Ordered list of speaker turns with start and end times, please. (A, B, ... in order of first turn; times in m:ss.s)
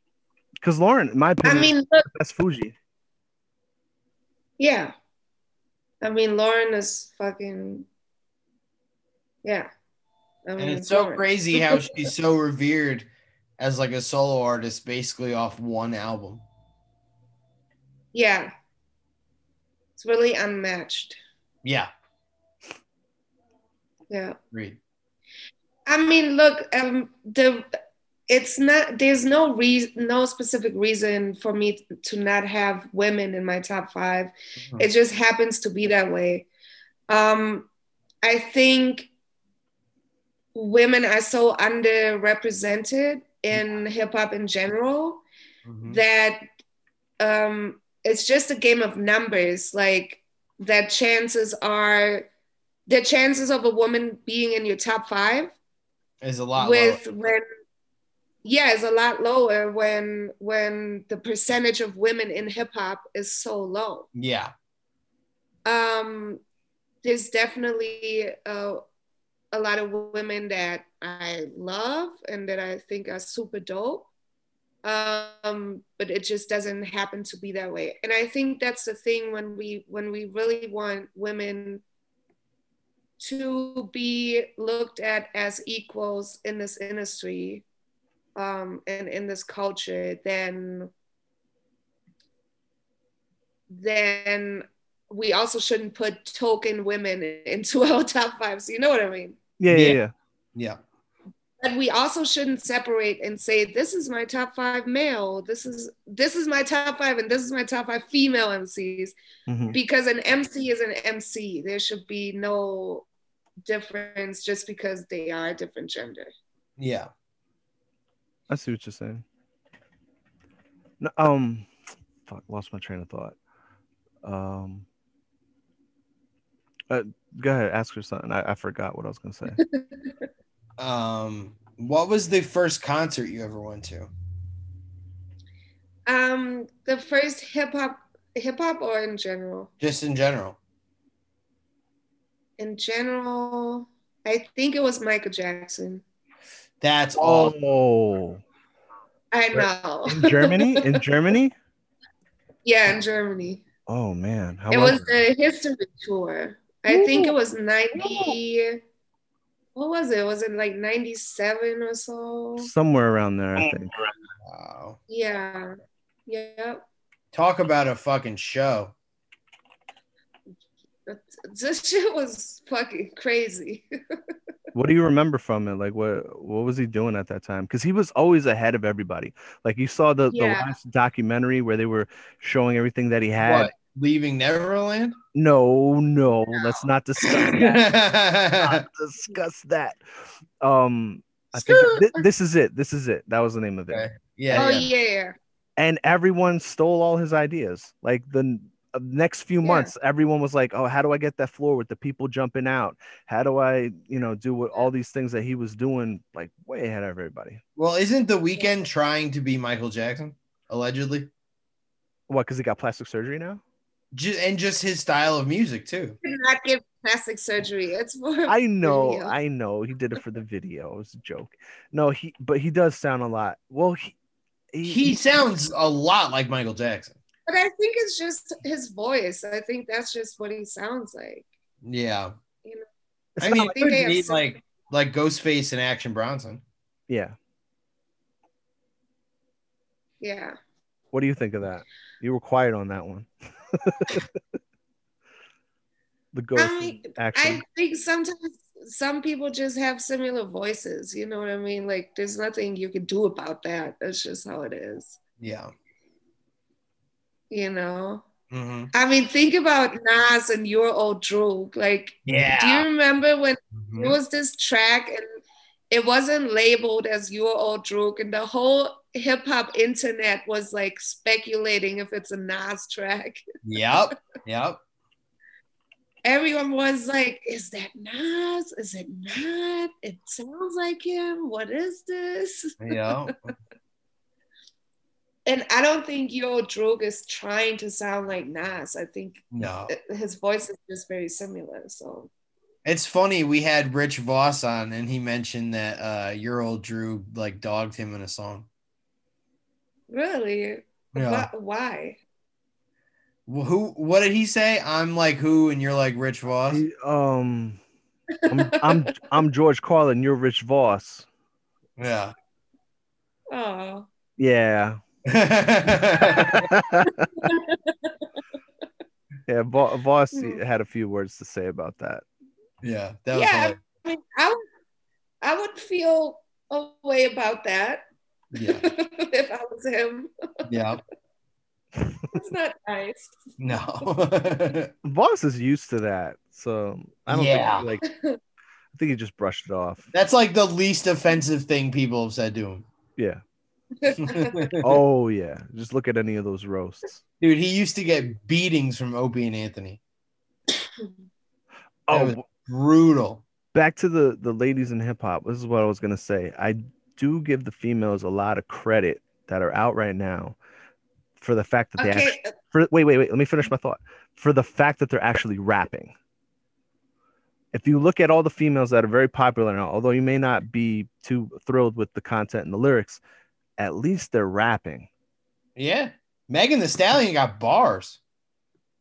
0:00.6-0:02.7 A
0:01.4-0:02.0 B
0:04.6-0:04.9 B
0:06.0-0:07.8 B
0:09.4-0:09.7 B
0:10.4-0:11.9 B
0:10.6-0:13.1 C
0:13.6-0:16.4 C
0:18.1-0:18.5 B
0:20.0-0:21.2 B
0:21.6-0:21.9 C
0:24.1-0:24.4 B
0:24.5-0:24.8 C
0:25.8-0:27.6 B
0:28.3-0:36.5 B
0:37.1-0:37.7 B
0:38.2-0:39.1 B
0:40.5-0:45.2 B
0:45.6-0:46.0 C
0:45.9-0:46.4 B
0:47.2-0:52.3 B
0:52.9-0:55.5 B
0:56.2-0:57.0 C
0:56.6-0:57.4 B
0:58.4-1:04.1 B
1:04.1-1:04.5 C
1:05.6-1:06.4 B
1:07.0-1:08.8 B
1:09.5-1:14.1 B
1:14.8-1:21.8 B
1:23.2-1:27.6 B
1:28.4-1:30.9 B
1:33.7-1:39.4 B
1:39.6-1:40.1 A
1:39.7-1:40.0 C
1:41.6-1:49.1 B
1:49.5-1:49.8 A
1:49.7-1:53.1 B
1:53.6-1:56.3 B
1:56.8-1:57.1 C
1:58.5-1:59.2 A
2:01.0-2:01.7 A
2:02.2-2:03.4 A
2:04.2-2:04.8 A
2:06.9-2:09.6 A
2:09.5-2:10.1 B
2:10.8-2:14.1 C
2:16.1-2:19.7 B
2:19.8-2:20.6 C
2:22.6-2:26.0 B
2:26.8-2:27.5 C
2:27.2-2:28.4 A
2:29.3-2:31.0 B
2:29.5-2:31.5 A
2:32.6-2:33.6 B
2:33.9-2:35.1 A
2:34.7-2:38.8 B
2:36.9-2:37.4 A
2:37.9-2:38.4 A
2:39.8-2:42.7 B
2:42.6-2:44.0 A
2:44.4-2:45.0 C
2:45.1-2:45.7 B
2:46.3-2:46.8 B
2:47.3-2:48.9 C
2:51.1-2:53.8 B
2:54.7-3:03.7 A
3:00.3-3:00.7 B
3:03.4-3:05.2 C
3:05.3-3:07.9 A
3:06.6-3:06.8 B
3:07.2-3:08.8 C
3:08.6-3:10.0 A
3:10.6-3:14.9 A
3:11.6-3:12.2 B
3:13.9-3:14.9 C
3:14.5-3:15.4 B
3:15.8-3:27.6 A
3:19.6-3:19.9 B
3:27.8-3:31.3 C
3:32.3-3:33.6 A
3:34.1-3:36.2 C
3:36.2-3:39.3 B
3:38.5-3:44.1 A
3:44.7-3:45.4 A
3:44.8-3:47.2 C
3:47.5-3:51.4 B
3:51.8-3:52.3 C
3:53.4-3:53.8 A
3:53.4-3:54.5 B
3:53.4-3:56.6 C
3:57.1-3:57.3 A
4:00.2-4:00.5 B
4:01.1-4:04.3 A
4:06.3-4:07.6 A
4:06.6-4:15.1 B
4:15.4-4:15.7 C
4:17.5-4:18.2 B
4:18.5-4:18.9 C
4:18.9-4:25.2 B
4:22.2-4:22.9 C
4:23.8-4:24.2 C
4:25.9-4:33.4 B
4:33.6-4:34.8 C
4:36.2-4:43.5 B
4:42.8-4:43.4 C
4:45.4-4:52.3 B
4:49.5-4:49.9 C
4:52.8-4:58.7 C
5:00.1-5:02.2 B
5:01.1-5:01.5 C
5:03.5-5:06.8 C
5:06.7-5:07.8 A
5:08.5-5:08.9 B
5:08.5-5:11.2 A
5:12.0-5:12.3 C
5:13.5-5:14.1 B
5:14.4-5:15.0 A
5:15.2-5:16.7 C
5:16.5-5:17.3 A
5:17.1-5:18.2 B
5:19.5-5:22.2 A
5:20.3-5:20.6 B
5:22.8-5:23.8 C
5:23.3-5:24.6 B
5:25.4-5:28.0 B
5:28.5-5:28.8 C
5:28.6-5:30.3 B
5:30.6-5:31.0 C
5:32.3-5:33.4 B
5:33.6-5:34.9 C
5:35.0-5:38.0 A
5:37.3-5:37.8 C
5:38.0-5:38.4 B
5:38.9-5:40.1 A
5:40.1-5:42.8 C
5:43.2-5:43.4 A
5:44.0-5:44.6 B
5:44.2-5:45.0 C
5:44.8-5:47.2 A
5:47.4-5:50.0 C
5:52.1-5:52.4 A
5:52.1-5:53.4 C
5:53.7-6:00.6 A
6:01.4-6:06.1 A
6:02.0-6:02.5 B
6:07.7-6:13.2 A
6:13.8-6:15.1 A
6:15.8-6:18.2 C